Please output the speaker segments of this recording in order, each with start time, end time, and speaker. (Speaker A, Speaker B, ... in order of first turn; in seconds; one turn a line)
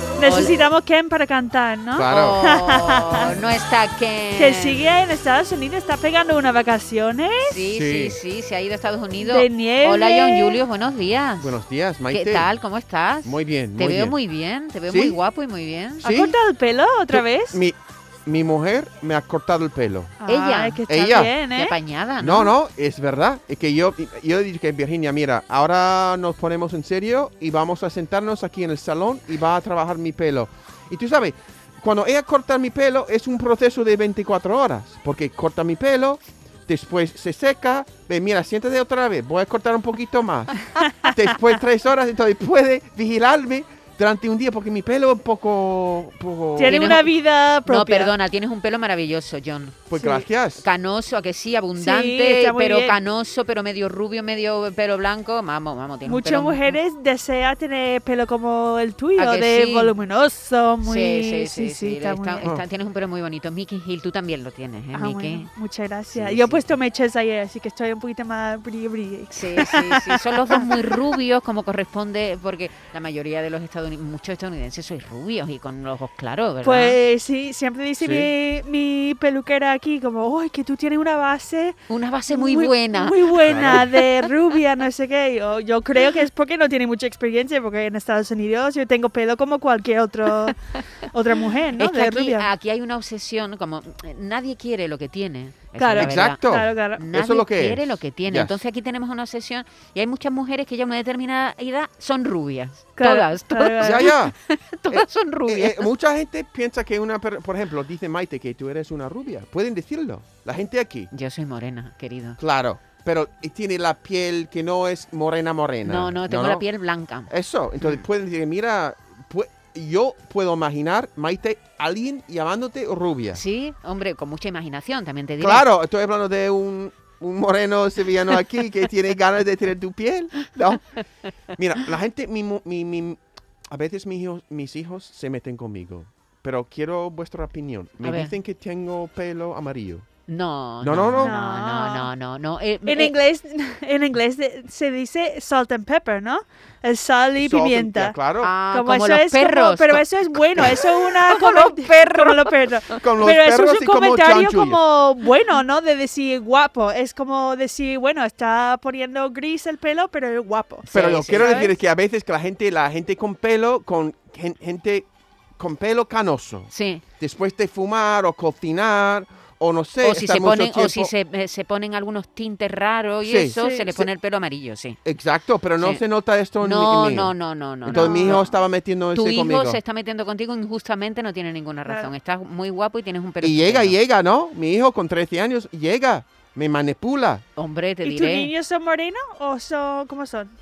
Speaker A: 0.2-3.4
Speaker B: 0.2-0.5
Speaker C: 1.9-2.5
Speaker B: 2.1-4.8
Speaker A: 4.3-7.7
Speaker B: 7.5-11.5
Speaker C: 7.7-8.2
Speaker A: 9.2-10.6
Speaker C: 11.4-12.5
Speaker B: 12.1-16.0
Speaker C: 13.2-14.2
Speaker C: 14.9-15.2
Speaker C: 16.0-16.4
Speaker A: 16.0-17.6
Speaker C: 17.1-20.2
Speaker A: 20.2-21.8
Speaker B: 20.3-20.8
Speaker C: 20.9-21.3
Speaker B: 21.5-22.5
Speaker C: 22.2-46.9
Speaker A: 46.5-48.1
Speaker B: 46.6-47.1
Speaker B: 47.6-49.9
Speaker C: 49.9-50.6
Speaker A: 49.9-50.2
Speaker B: 50.6-56.8
Speaker A: 51.8-53.0
Speaker A: 56.0-62.5
Speaker B: 59.2-59.9
Speaker B: 60.8-65.5
Speaker A: 64.9-70.8
Speaker B: 66.1-66.6
Speaker B: 69.3-77.0
Speaker A: 76.6-90.6
Speaker C: 78.0-78.3
Speaker B: 81.9-84.1
Speaker C: 83.5-83.9
Speaker B: 90.4-90.8
Speaker A: 91.1-92.5
Speaker B: 91.8-96.4
Speaker A: 95.8-97.0
Speaker C: 96.0-98.6
Speaker B: 97.0-105.9
Speaker A: 103.0-104.1
Speaker C: 103.8-104.3
Speaker C: 104.9-111.1
Speaker B: 111.1-112.4
Speaker C: 112.4-116.6
Speaker B: 115.8-117.3
Speaker C: 117.3-123.4
Speaker B: 123.3-125.6
Speaker C: 125.4-131.0
Speaker C: 131.5-140.1
Speaker B: 138.0-138.3
Speaker B: 140.3-143.1
Speaker C: 140.8-141.3
Speaker A: 141.2-142.1
Speaker A: 142.8-148.2
Speaker C: 147.4-148.5
Speaker B: 148.4-150.0
Speaker A: 148.7-161.7
Speaker B: 150.6-152.5
Speaker C: 153.0-154.8
Speaker B: 160.9-161.7
Speaker C: 160.9-171.1
Speaker B: 166.7-167.0
Speaker B: 170.0-175.0
Speaker C: 173.2-174.1
Speaker A: 173.6-173.9
Speaker C: 175.0-179.8
Speaker B: 176.6-178.5
Speaker A: 177.9-178.4
Speaker B: 179.1-183.9
Speaker A: 181.8-182.1
Speaker C: 183.4-187.4
Speaker B: 187.6-188.5
Speaker A: 188.0-190.5